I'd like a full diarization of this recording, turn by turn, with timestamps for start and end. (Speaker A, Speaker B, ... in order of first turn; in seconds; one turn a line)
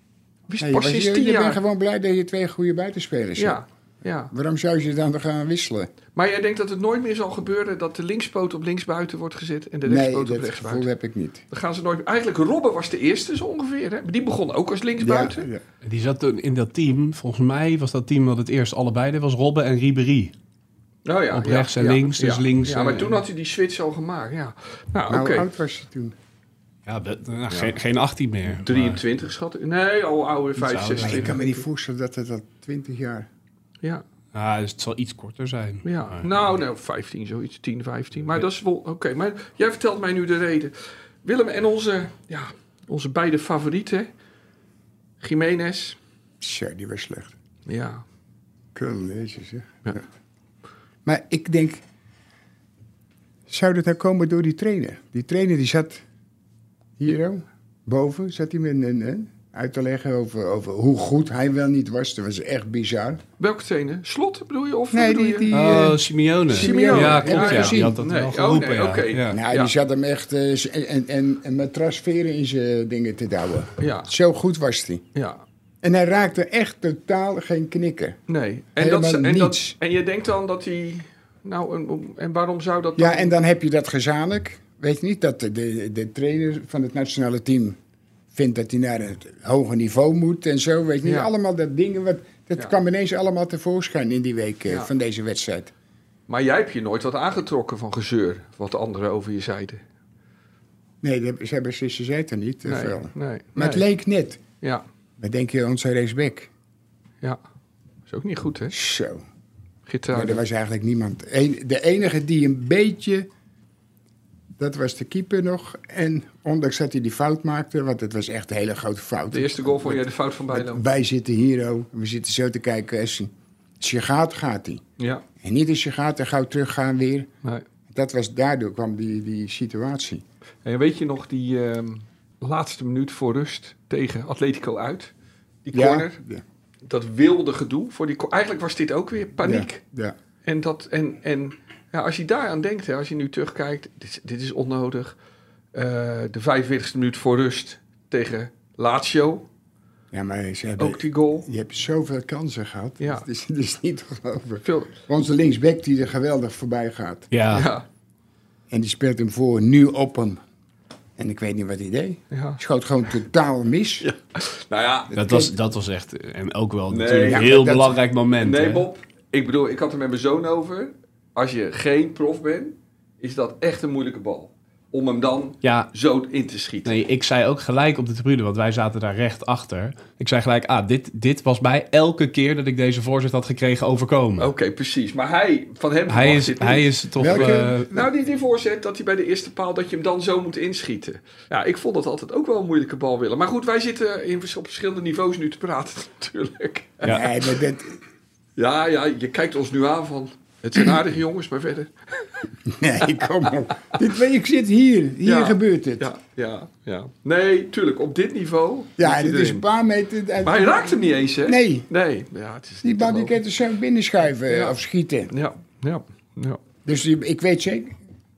Speaker A: 0.5-1.6
Speaker B: 0.6-3.6
Speaker A: 3.4-4.3
Speaker B: 4.3-5.9
Speaker A: 6.1-10.9
Speaker B: 9.8-11.4
Speaker A: 11.5-15.5
Speaker B: 15.0-15.6
Speaker C: 15.8-20.3
Speaker A: 21.0-25.5
Speaker C: 21.3-23.2
Speaker B: 25.1-26.1
Speaker C: 26.9-29.0
Speaker A: 27.5-27.8
Speaker A: 28.6-31.6
Speaker C: 30.6-31.4
Speaker B: 31.0-33.3
Speaker C: 34.3-36.3
Speaker A: 35.8-44.1
Speaker A: 45.2-46.0
Speaker B: 46.4-47.3
Speaker A: 47.6-48.0
Speaker B: 48.7-50.0
Speaker B: 51.0-51.8
Speaker B: 53.5-56.0
Speaker B: 57.0-63.2
Speaker A: 63.4-65.7
Speaker B: 64.9-68.0
Speaker C: 65.5-69.4
Speaker A: 66.5-69.7
Speaker B: 69.3-75.0
Speaker A: 73.8-74.1
Speaker A: 75.1-75.4
Speaker B: 75.8-78.2
Speaker A: 78.3-83.3
Speaker B: 78.8-79.8
Speaker B: 83.0-87.8
Speaker B: 88.3-95.7
Speaker A: 91.0-91.3
Speaker A: 96.3-99.8
Speaker B: 101.0-104.4
Speaker A: 102.6-103.8
Speaker B: 105.2-106.5
Speaker A: 108.1-108.8
Speaker B: 108.7-109.2
Speaker A: 109.8-110.4
Speaker B: 110.1-113.3
Speaker B: 114.6-124.8
Speaker A: 119.3-120.8
Speaker A: 125.0-125.2
Speaker B: 125.4-127.3
Speaker B: 127.9-130.2
Speaker A: 130.6-135.1
Speaker A: 135.6-136.2
Speaker B: 135.7-136.4
Speaker A: 136.8-139.8
Speaker B: 139.4-140.1
Speaker A: 140.4-145.2
Speaker A: 145.7-149.5
Speaker B: 150.1-157.3
Speaker A: 150.8-151.5
Speaker A: 153.0-153.2
Speaker A: 154.6-155.0
Speaker C: 157.3-157.7
Speaker A: 157.5-157.8
Speaker B: 158.7-160.4
Speaker B: 161.2-164.1
Speaker A: 162.3-162.6
Speaker A: 164.0-165.2
Speaker B: 165.1-165.5
Speaker C: 165.1-168.9
Speaker A: 166.9-167.5
Speaker B: 167.3-168.0
Speaker A: 168.4-177.0
Speaker C: 175.6-175.9
Speaker C: 176.8-184.5
Speaker A: 184.4-197.4
Speaker C: 186.1-187.9
Speaker B: 187.2-187.7
Speaker B: 197.0-198.0
Speaker A: 198.6-202.5
Speaker B: 202.6-206.1
Speaker A: 203.0-203.5
Speaker A: 205.2-209.6
Speaker B: 209.0-211.9
Speaker A: 210.4-213.4
Speaker B: 212.8-215.3
Speaker A: 214.5-214.8
Speaker A: 215.3-216.6
Speaker B: 216.8-218.0